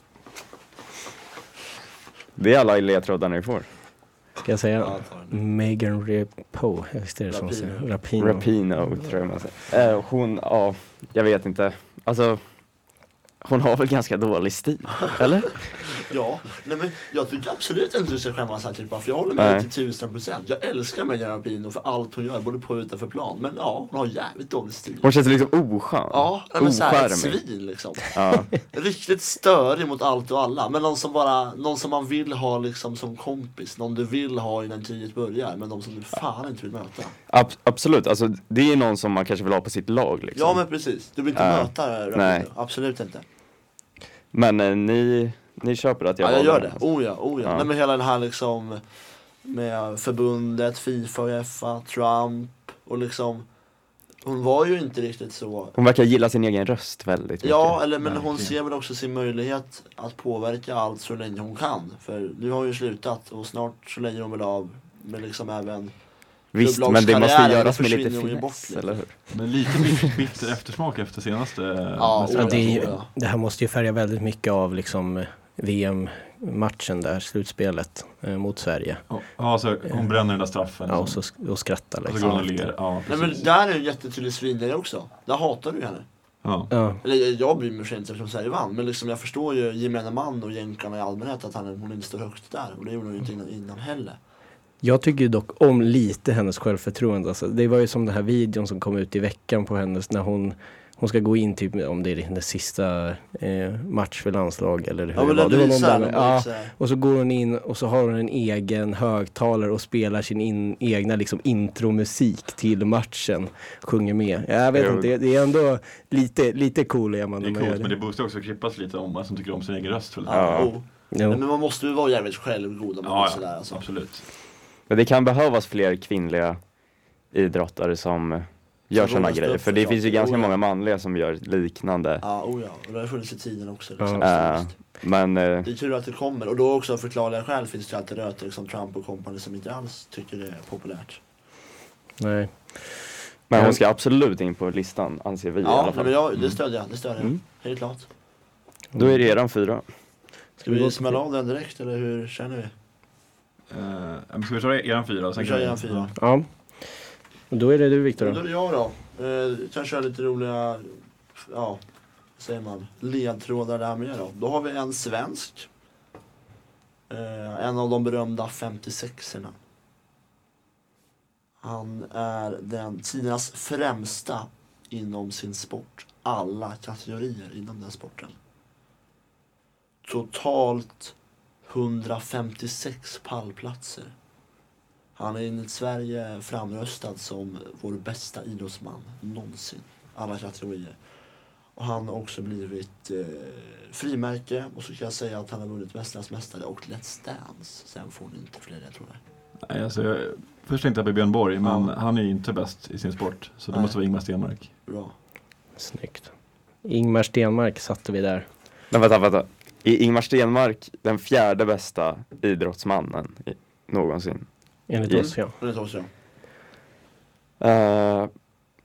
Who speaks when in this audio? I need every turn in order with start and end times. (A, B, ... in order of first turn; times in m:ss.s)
0:02.4-0:03.6 A
0:04.4-0:08.5 B
0:04.8-0:05.4 C
0:07.3-0:07.9 C
0:08.2-0:12.4 A
0:13.4-0:16.0 A
0:15.9-0:25.2 C
0:19.4-0:19.7 A
0:25.0-0:27.4 A
0:26.1-0:37.1 C
0:28.1-0:28.5 A
0:37.3-0:40.6 A
0:40.4-0:43.2 C
0:41.3-0:42.5 A
0:44.3-0:46.8 A
0:46.2-0:48.8 C
0:47.4-0:47.7 A
0:49.4-0:53.4 C
0:54.2-0:55.8 C
0:55.8-0:57.8 A
0:57.4-1:06.0 C
0:58.0-0:58.5 D
1:06.5-1:09.0 C
1:06.5-1:09.3 A
1:09.3-1:13.0 D
1:12.0-1:13.1 C
1:12.3-1:19.0 B
1:19.1-1:21.2 D
1:20.8-1:22.6 B
1:22.0-1:23.4 D
1:23.1-1:26.0 C
1:26.4-1:26.7 D
1:26.7-1:27.0 B
1:27.0-1:34.2 C
1:34.8-1:57.9 B
1:45.1-1:46.7 C
1:54.7-1:55.1 A
1:57.4-2:00.7 D
2:00.2-2:03.8 C
2:00.3-2:00.7 A
2:01.1-2:01.4 B
2:03.0-2:04.2 D
2:04.9-2:06.6 A
2:07.3-2:12.2 A
2:08.9-2:10.5 C
2:12.2-2:15.0 C
2:14.2-2:15.7 A
2:15.6-2:21.2 C
2:22.2-2:23.8 B
2:23.5-2:26.2 A
2:25.6-2:28.1 C
2:28.9-2:29.3 B
2:29.0-2:29.8 A
2:30.6-2:31.2 B
2:30.6-2:32.7 C
2:33.7-2:36.1 D
2:35.3-2:36.1 C
2:36.2-2:36.9 B
2:37.5-2:38.4 B
2:38.2-2:41.8 C
2:42.4-2:45.7 C
2:47.1-2:49.6 C
2:51.6-2:58.3 C
3:00.0-3:01.1 C
3:01.6-3:04.1 C
3:05.2-3:11.0 C
3:11.8-3:19.2 C
3:19.6-3:24.7 D
3:21.6-3:21.9 C
3:23.7-3:24.0 C
3:24.8-3:25.1 C
3:25.8-3:26.3 B
3:26.8-3:28.5 B
3:28.9-3:34.5 A
3:34.9-3:35.5 B
3:35.0-3:35.3 A
3:35.1-3:36.1 C
3:37.6-3:38.3 A